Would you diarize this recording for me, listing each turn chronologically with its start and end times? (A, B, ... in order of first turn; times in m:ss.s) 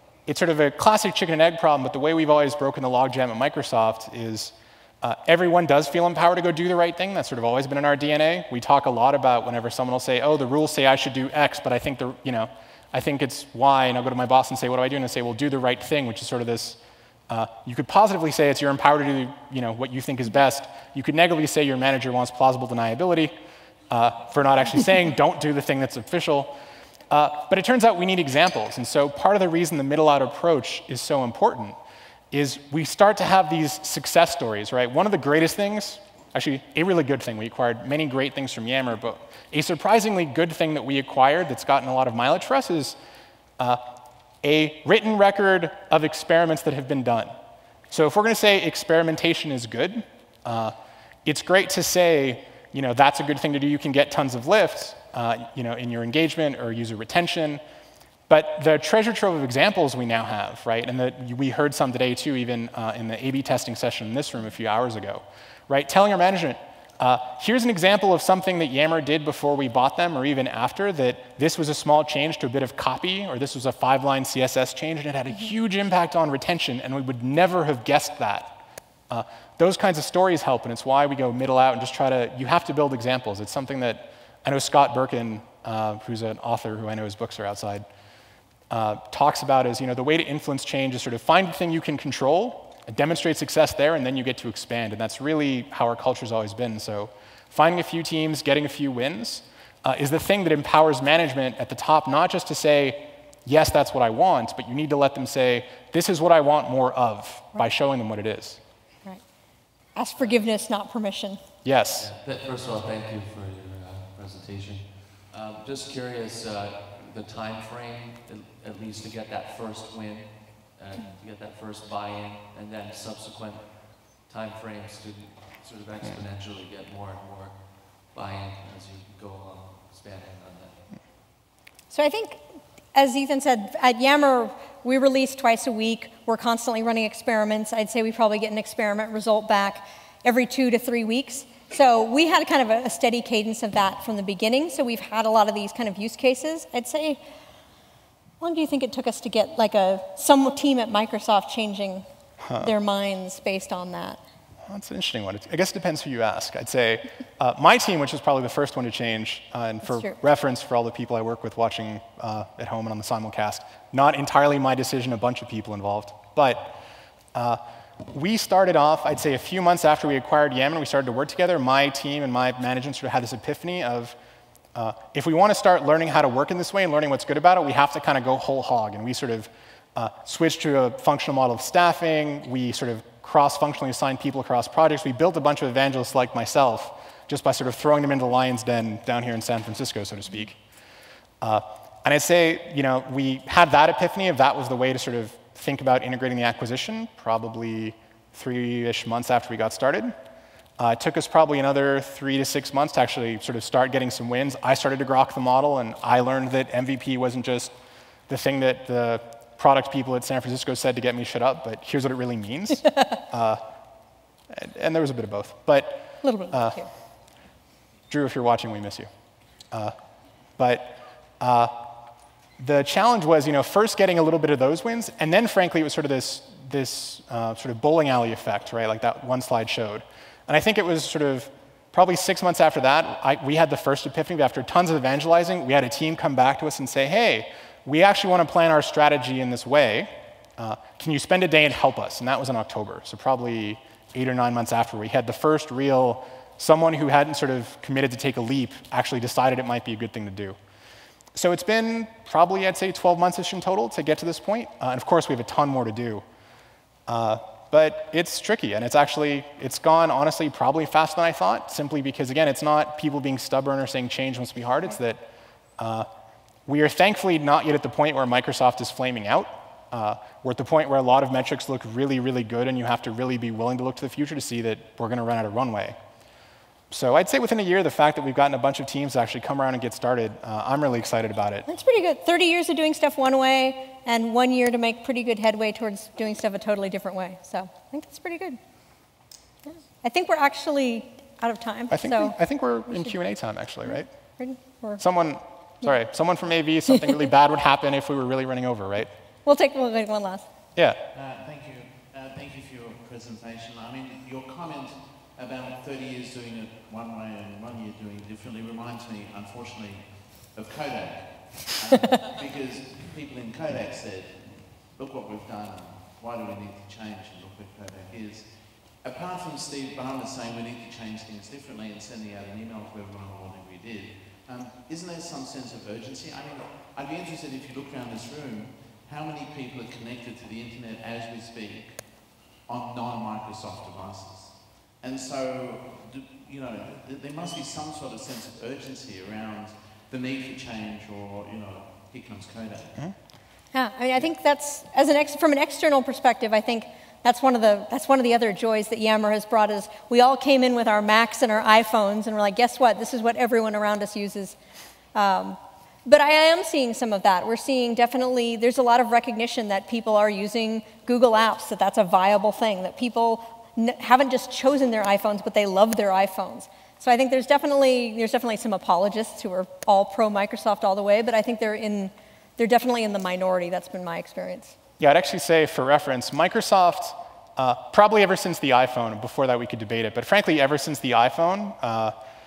0:00.3-0:23.3 A
0:23.9-0:26.6 A
0:27.1-0:31.8 A
0:32.3-0:43.0 A
0:44.4-0:47.4 A
0:47.9-0:57.6 A
0:58.3-1:18.6 A
1:19.1-1:27.9 A
1:28.7-1:48.6 A
1:50.0-1:51.4 B
1:51.6-1:52.1 A
1:51.9-2:10.9 C
2:11.9-2:12.4 B
2:13.0-2:27.2 B
2:28.4-2:32.0 B
2:32.4-2:32.7 A
2:32.6-2:34.2 B
2:34.6-2:46.8 A
2:39.8-2:40.2 B
2:47.3-2:54.2 A
2:54.8-3:10.6 A
3:11.4-3:20.2 A
3:20.8-3:27.7 A
3:28.3-3:33.6 A
3:34.5-3:36.8 A
3:36.2-3:36.9 B
3:38.1-3:39.1 A
3:40.6-3:41.9 A
3:42.6-4:10.6 A
4:11.4-4:16.2 A
4:17.1-4:25.2 A
4:25.8-4:26.1 A
4:26.7-4:36.0 A
4:36.9-4:41.7 A
4:41.7-4:48.6 B
4:49.7-4:52.4 B
4:51.9-4:54.1 A
4:52.9-4:53.2 B
4:53.9-4:55.0 B
4:55.0-4:59.1 A
4:59.5-5:00.5 B
5:00.8-5:01.0 A
5:01.1-5:43.0 D
5:43.7-5:54.6 B
5:55.2-6:14.7 B
6:15.0-6:22.2 A